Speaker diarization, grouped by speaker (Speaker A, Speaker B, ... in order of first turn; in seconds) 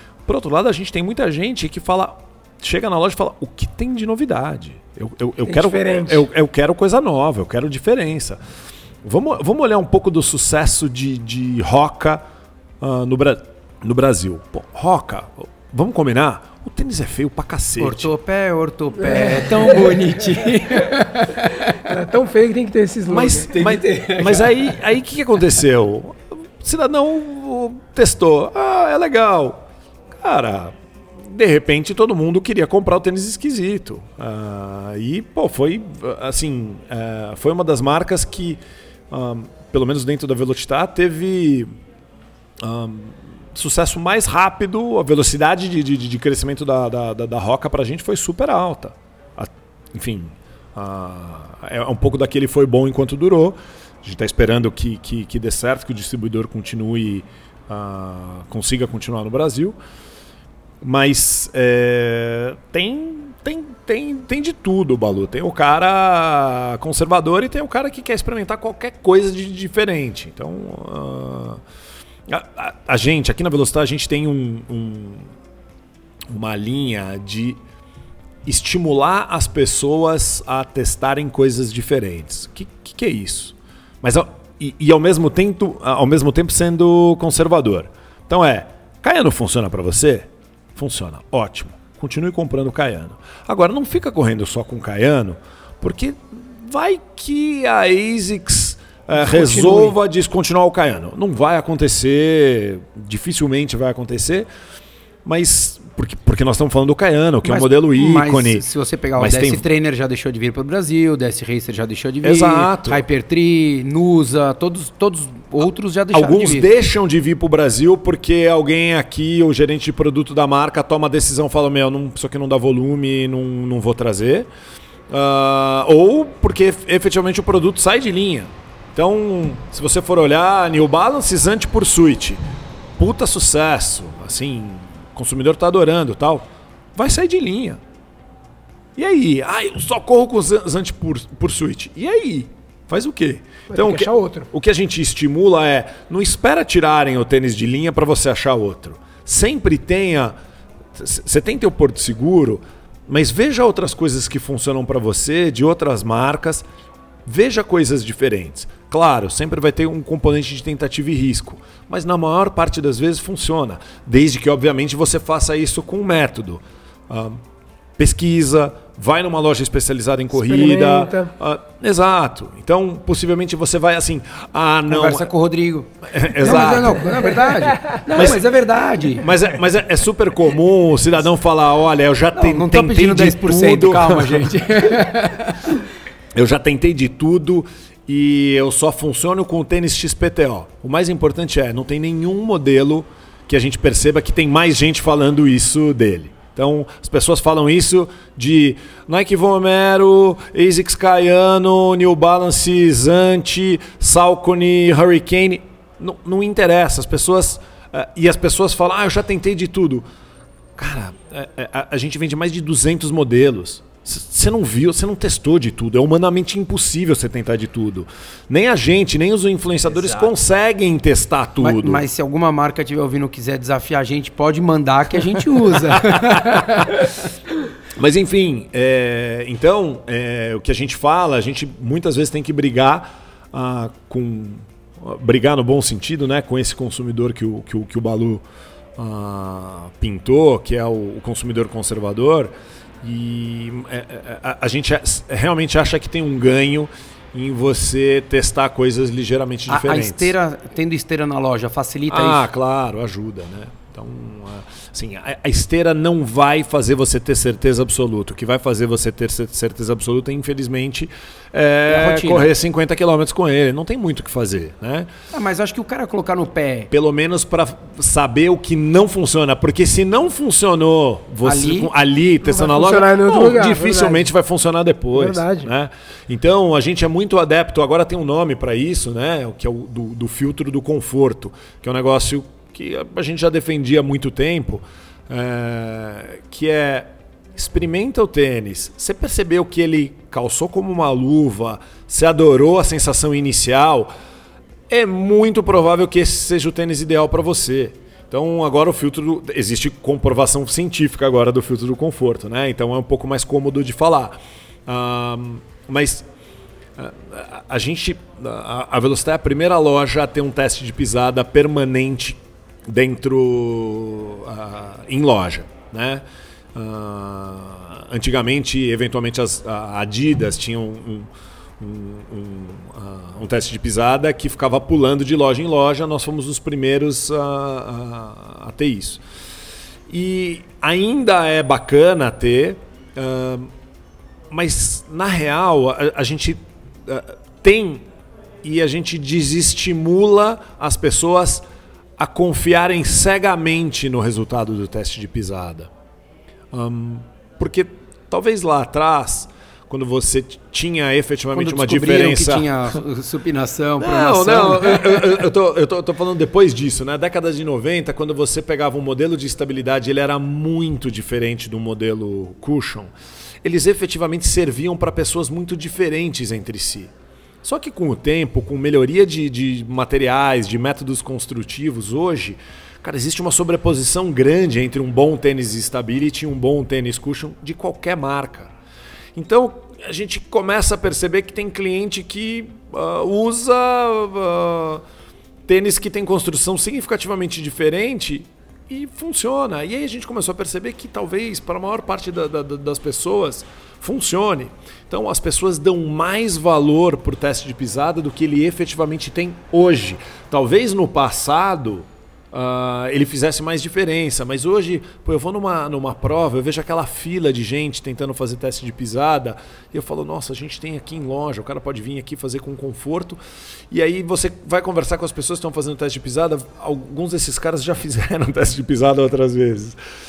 Speaker A: 0.2-8.4, 9.0-12.2, 12.8-18.1, 23.1-38.6, 39.1-41.7, 42.6-59.8, 60.8-71.6, 72.3-75.3, 76.3-77.6, 78.5-104.5, 105.2-108.6, 109.2-109.6, 112.2-113.0, 116.1-124.5, 125.1-132.4, 133.0-137.8, 139.0-150.3, 150.9-156.7, 157.3-167.4, 168.0-175.3, 176.1-177.2, 178.1-178.4, 179.2-184.5, 186.3-210.1, 210.8-222.0, 226.0-226.7, 227.9-238.4, 239.0-250.3, 252.1-265.1, 266.9-294.1, 294.9-306.3, 307.0-321.3, 321.8-329.2, 330.1-333.7, 334.5-338.1, 338.6-341.6, 342.2-345.9, 346.7-352.7, 354.0-363.1, 363.6-367.1, 367.6-378.7, 379.4-385.0, 385.7-413.4, 413.9-420.0
Speaker B: 5.4-6.2, 19.0-20.0, 21.9-23.8, 143.7-144.5, 170.3-171.3, 177.0-178.0, 272.4-274.3, 275.1-275.7
Speaker C: 17.8-21.7, 23.6-24.6, 99.2-100.0, 107.4-116.7, 174.9-179.3, 182.3-185.8, 221.6-227.1, 249.7-252.5, 261.9-262.5, 265.3-266.9, 271.4-271.9, 351.5-355.4